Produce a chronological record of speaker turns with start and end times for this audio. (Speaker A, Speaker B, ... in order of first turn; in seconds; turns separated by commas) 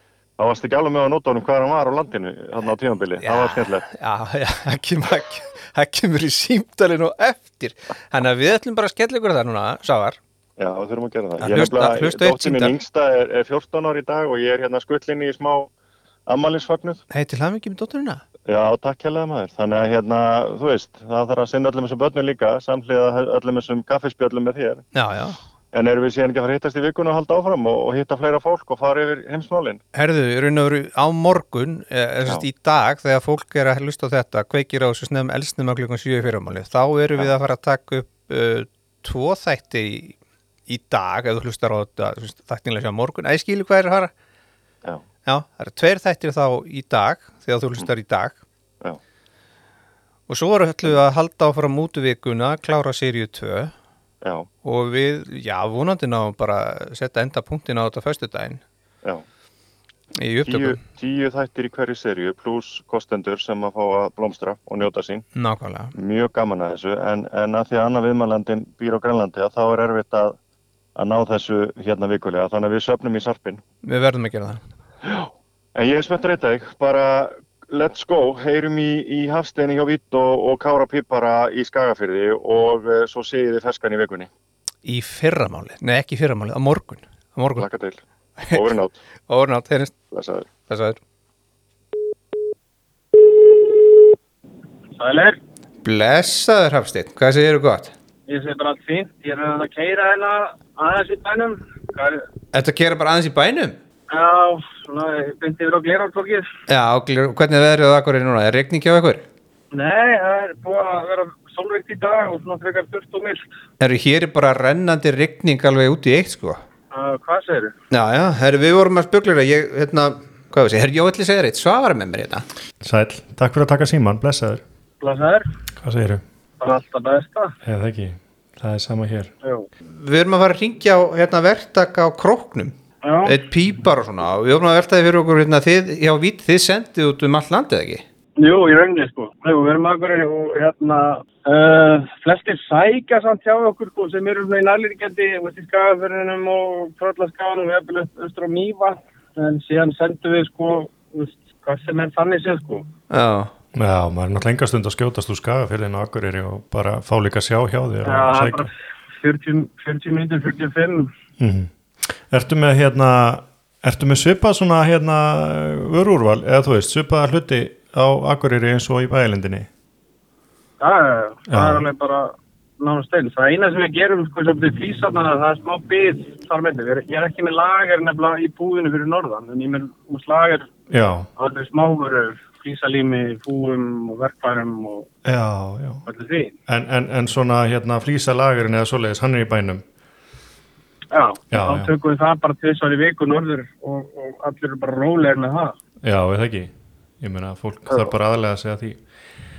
Speaker A: 0.4-3.9, Speaker B: 3.2-10.2, Speaker A: 10.6-15.7, Speaker B: 11.4-12.8, Speaker A: 16.3-17.0, Speaker B: 17.1-18.2, Speaker A: 18.5-24.8, Speaker B: 24.9-25.4, Speaker A: 25.7-29.8, Speaker B: 29.9-40.2, Speaker B: 40.7-44.1, Speaker B: 45.3-48.4, Speaker B: 50.3-53.7, Speaker A: 54.2-54.5, Speaker B: 54.6-58.6, Speaker B: 60.2-60.8, Speaker A: 60.5-65.3, Speaker B: 65.4-66.0, Speaker A: 66.0-70.4, Speaker A: 71.0-73.6, Speaker B: 73.8-74.6, Speaker A: 75.0-84.3, Speaker B: 84.8-87.7, Speaker A: 87.6-89.0, Speaker B: 89.3-89.9, Speaker A: 90.1-90.5, Speaker B: 90.7-91.0, Speaker C: 95.0-95.4, Speaker B: 95.8-97.9, Speaker C: 98.3-102.3, Speaker B: 102.5-103.8, Speaker C: 104.1-106.5, Speaker B: 106.7-109.2, Speaker C: 109.7-113.4, Speaker B: 113.8-116.6, Speaker C: 116.9-117.7, Speaker B: 117.9-122.5, Speaker D: 122.8-124.6, Speaker C: 125.0-125.5, Speaker D: 125.8-126.2, Speaker C: 126.6-127.5, Speaker D: 127.6-129.3, Speaker B: 129.9-138.0, Speaker C: 133.0-133.4, Speaker C: 138.4-152.9, Speaker B: 153.1-153.5, Speaker D: 153.8-158.7, Speaker C: 158.1-161.1, Speaker D: 161.4-169.7, Speaker C: 170.8-180.7, Speaker D: 171.5-171.9, Speaker D: 180.9-181.3, Speaker C: 181.4-185.1, Speaker D: 185.2-186.0, Speaker C: 186.1-186.5, Speaker D: 186.7-189.8, Speaker C: 191.1-195.8, Speaker D: 191.5-191.9, Speaker D: 196.0-199.0